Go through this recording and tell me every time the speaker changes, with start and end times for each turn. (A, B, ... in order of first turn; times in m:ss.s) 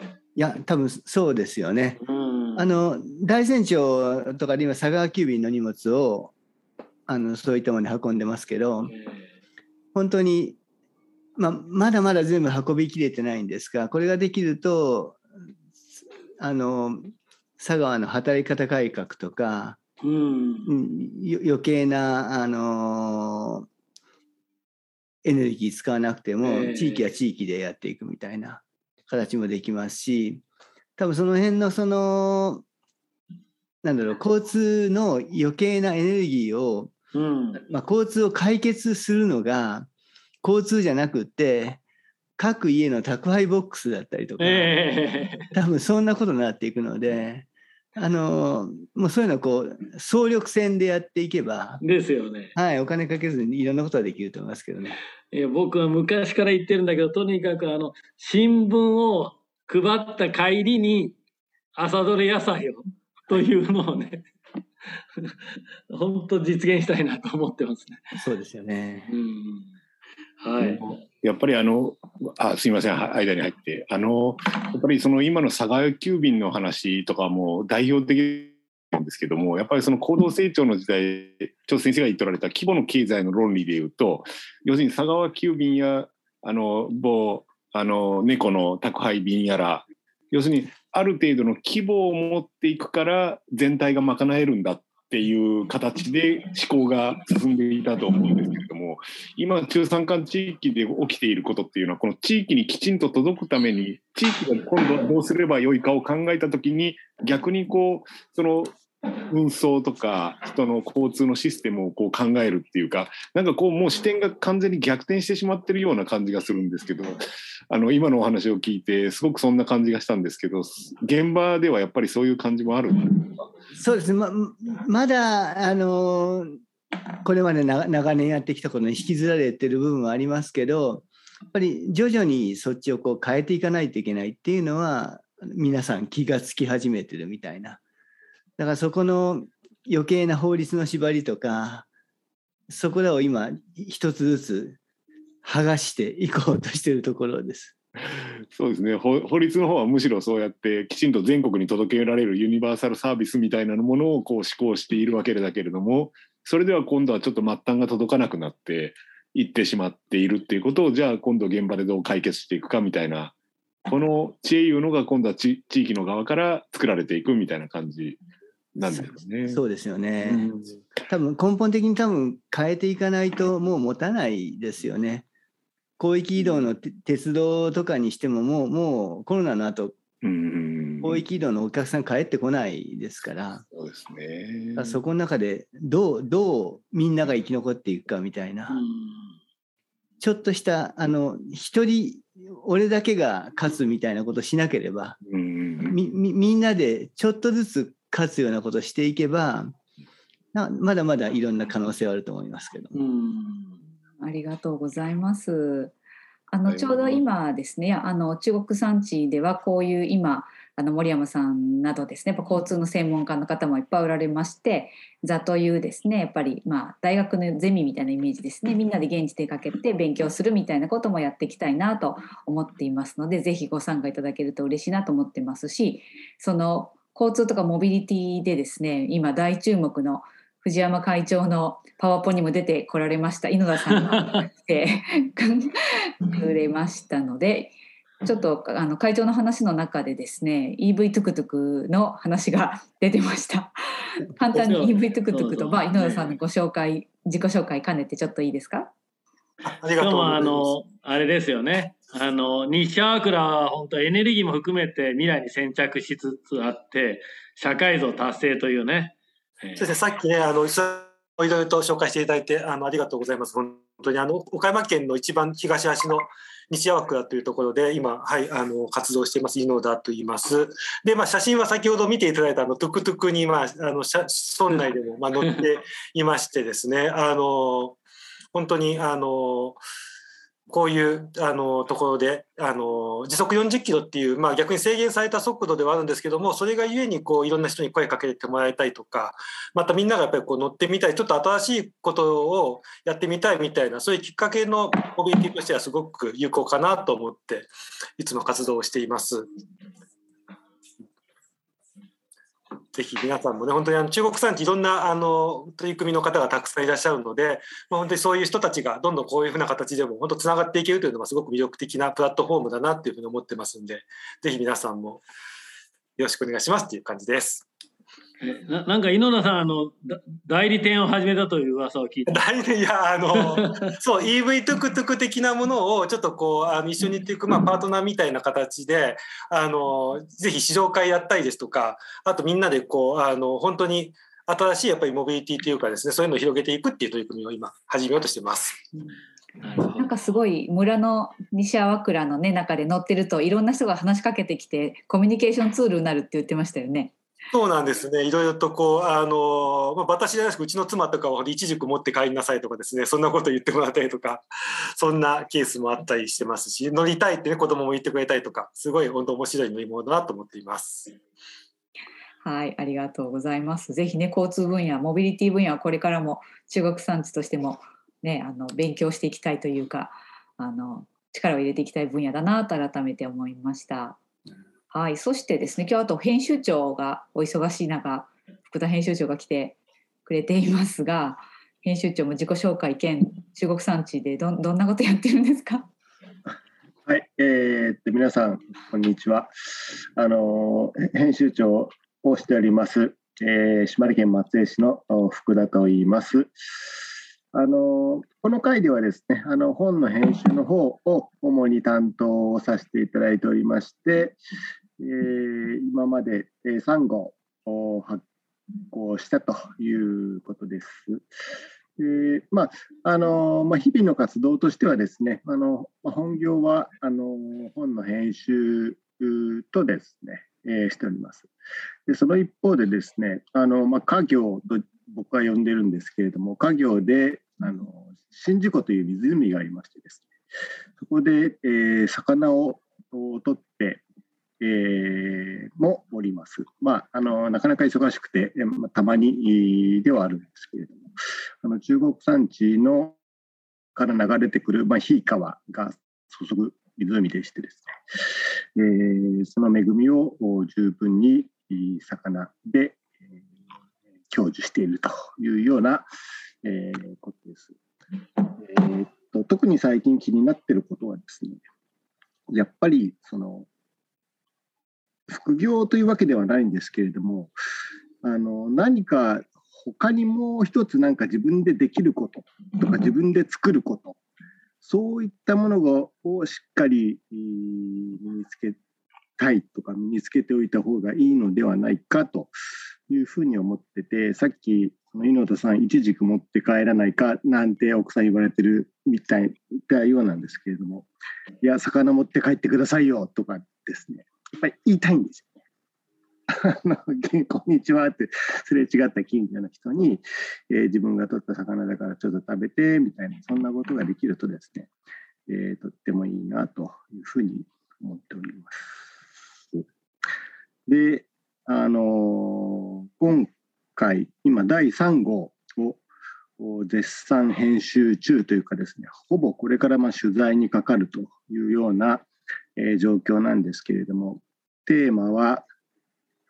0:00.4-0:02.0 A
0:02.0-0:02.7 B
0:02.5-0:06.3 A
0:07.1-0:08.9 A
0:09.9-0:10.6 A
0:11.4-0:15.2 A
0:16.4-0:19.8 A
0:20.0-0:20.7 B
0:20.6-0:23.6 A
0:25.2-0:30.4 A
0:26.4-0:27.0 B
0:31.0-0:32.6 A
0:33.8-0:36.9 A
0:37.1-0:37.6 B
0:37.6-0:39.9 A
0:40.4-0:41.8 A
0:42.4-0:44.7 A
0:44.4-0:45.5 B
0:45.5-0:51.8 A
0:51.8-0:52.5 B
0:52.5-0:55.0 A
0:55.3-1:01.2 B
1:01.8-1:04.3 B
1:05.9-1:08.0 B
1:08.2-1:09.1 A
1:09.1-1:09.7 B
1:10.4-1:10.8 B
1:10.6-1:48.7 C
1:49.3-2:03.5 C
2:03.7-2:06.6 A
2:07.2-2:17.8 A
2:18.6-2:21.8 A
2:22.7-2:24.8 A
2:25.4-2:27.7 A
2:28.1-2:43.3 C
2:43.9-2:48.2 C
2:48.7-2:49.6 C
2:48.8-2:50.5 A
2:50.2-2:50.8 C
2:51.1-2:55.2 A
2:56.0-2:59.9 A
3:00.2-3:01.2 C
3:01.0-3:03.6 A
3:03.7-3:05.0 C
3:04.8-3:08.8 A
3:08.7-3:09.3 B
3:10.2-3:15.2 A
3:15.2-3:15.9 C
3:15.8-3:19.7 A
3:20.5-3:22.9 A
3:22.9-3:23.8 B
3:24.2-3:25.9 D
3:26.5-4:08.9 D
3:26.7-3:27.2 C
3:53.9-3:54.4 B
4:04.5-4:06.4 B
4:09.6-4:10.7 E
4:10.0-4:19.9 B
4:19.8-4:38.0 E
4:38.5-4:39.8 E
4:40.7-4:59.5 E
5:02.9-5:15.2 E
5:16.2-5:17.7 E
5:18.4-5:22.4 B
5:22.3-5:38.8 E
5:23.4-5:23.8 B
5:39.6-5:40.1 B
5:39.9-5:47.1 D
5:47.5-5:54.4 E
5:55.0-6:01.1 E
6:02.4-6:14.2 D
6:14.9-6:25.9 D
6:27.1-6:29.5 F
6:30.2-6:36.5 F
6:37.5-6:44.4 F
6:45.0-6:48.2 F
6:48.9-6:51.2 F
6:52.0-7:01.5 F
7:02.1-7:10.2 F
7:11.0-7:14.0 F
7:14.6-7:21.1 F
7:21.6-7:23.2 F
7:24.0-7:33.0 F
7:34.3-7:36.1 F
7:36.6-7:37.7 F
7:38.4-7:41.6 F
7:42.5-7:43.7 F
7:45.3-7:47.5 F
7:48.2-7:54.2 F
7:54.8-7:58.8 F
7:59.4-8:02.5 F
8:03.1-8:11.1 F
8:11.6-8:15.6 F
8:16.5-8:24.9 F
8:25.5-8:29.0 F
8:30.9-8:36.0 F
8:36.6-8:42.2 F
8:42.8-8:45.6 F